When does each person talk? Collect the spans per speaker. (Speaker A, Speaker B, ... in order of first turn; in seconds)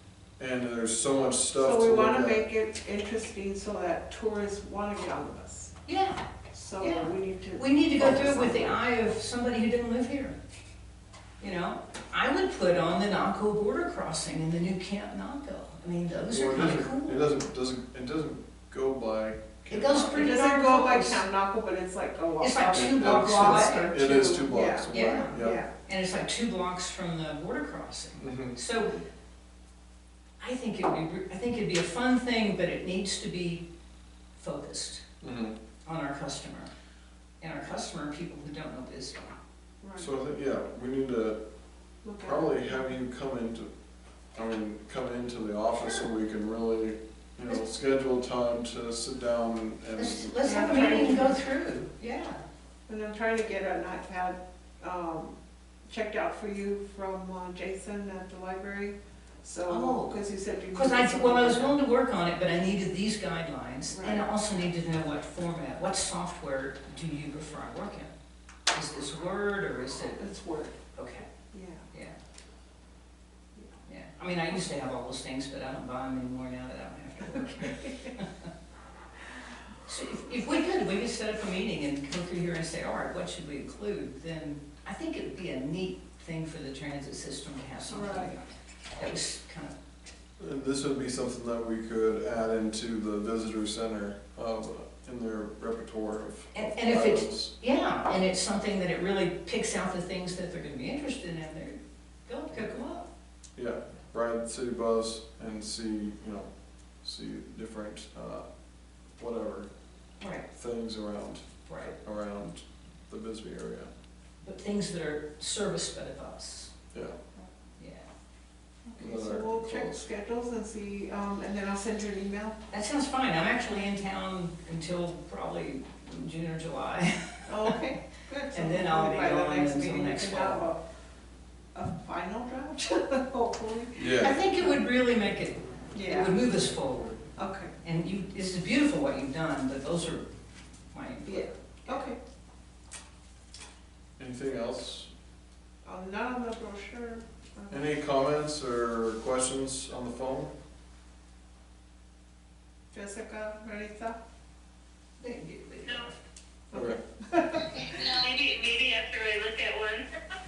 Speaker A: 0.4-2.4, 16.3-20.3, 22.7-25.6, 28.2-28.6, 35.2-35.5, 40.0-41.4, 42.2-43.7, 44.3-51.0, 90.4-97.5, 103.5-106.5, 107.0-108.4, 109.2-109.7, 110.5-113.9, 119.0-120.0, 133.9-134.3, 144.2-145.1, 147.7-150.5, 156.7-157.0
Speaker B: 1.6-5.7, 6.5-8.7, 20.0-25.7, 39.8-40.1, 42.0-42.8, 50.4-51.4, 52.9-61.8, 63.9-64.3, 70.2-70.8, 71.5-71.8, 77.4-78.1, 87.9-88.3, 118.9-122.6, 127.5-130.8, 131.7-134.7, 135.9-136.4, 137.3-137.7, 141.2-142.2, 145.8-147.8, 152.9-154.2, 156.7-158.0
Speaker C: 5.8-6.2, 6.8-10.3, 11.4-17.3, 19.7-21.2, 22.4-24.0, 24.9-28.9, 30.4-33.6, 34.4-35.0, 35.8-36.7, 37.4-39.3, 50.0-52.4, 59.7-60.1, 60.7-68.1, 68.7-70.2, 71.0-71.2, 73.9-78.5, 79.8-89.7, 96.5-103.1, 110.2-110.5, 111.7-111.9, 114.4-116.7, 117.8-118.0, 122.7-127.8, 128.5-130.6, 134.1-137.2, 137.8-140.2, 140.9-142.1, 155.2-156.1
Speaker D: 157.8-160.1